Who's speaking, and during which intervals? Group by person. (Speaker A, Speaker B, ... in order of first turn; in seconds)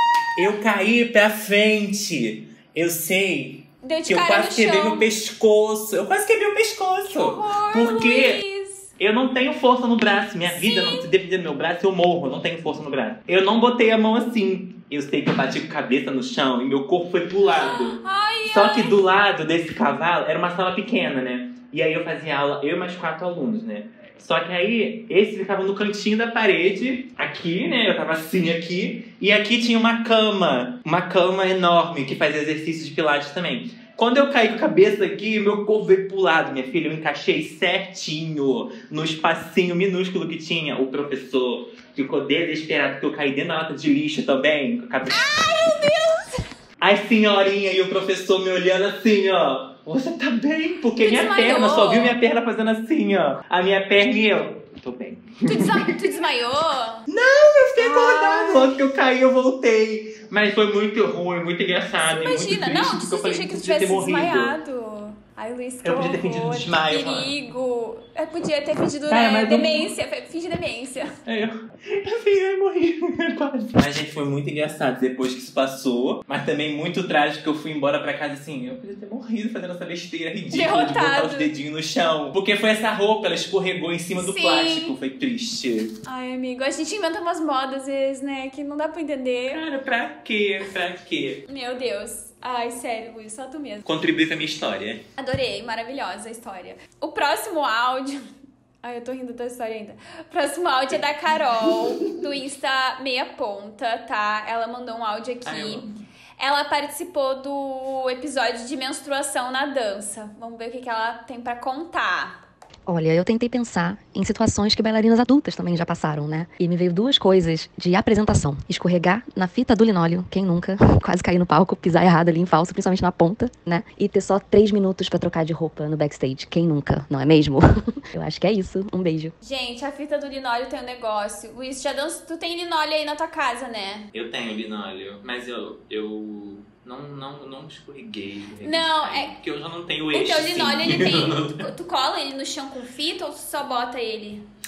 Speaker A: 0.4-8.4, 9.0-45.4, 46.8-55.9, 57.1-64.5, 65.8-67.3, 69.1-69.9, 71.3-85.9, 89.5-91.4, 93.8-95.0, 101.7-102.0, 105.5-106.0, 134.1-141.6
Speaker B: 3.8-5.0, 7.1-8.9, 10.5-11.1, 17.6-19.0, 45.1-46.3, 51.0-52.1, 55.5-57.0, 57.8-58.8, 62.0-71.1, 80.5-81.5, 84.2-84.9, 86.0-89.6, 91.5-93.9, 95.2-98.3, 98.8-105.8, 106.4-112.4, 129.4-134.1, 138.6-139.3, 140.1-144.4
Speaker C: 112.9-129.3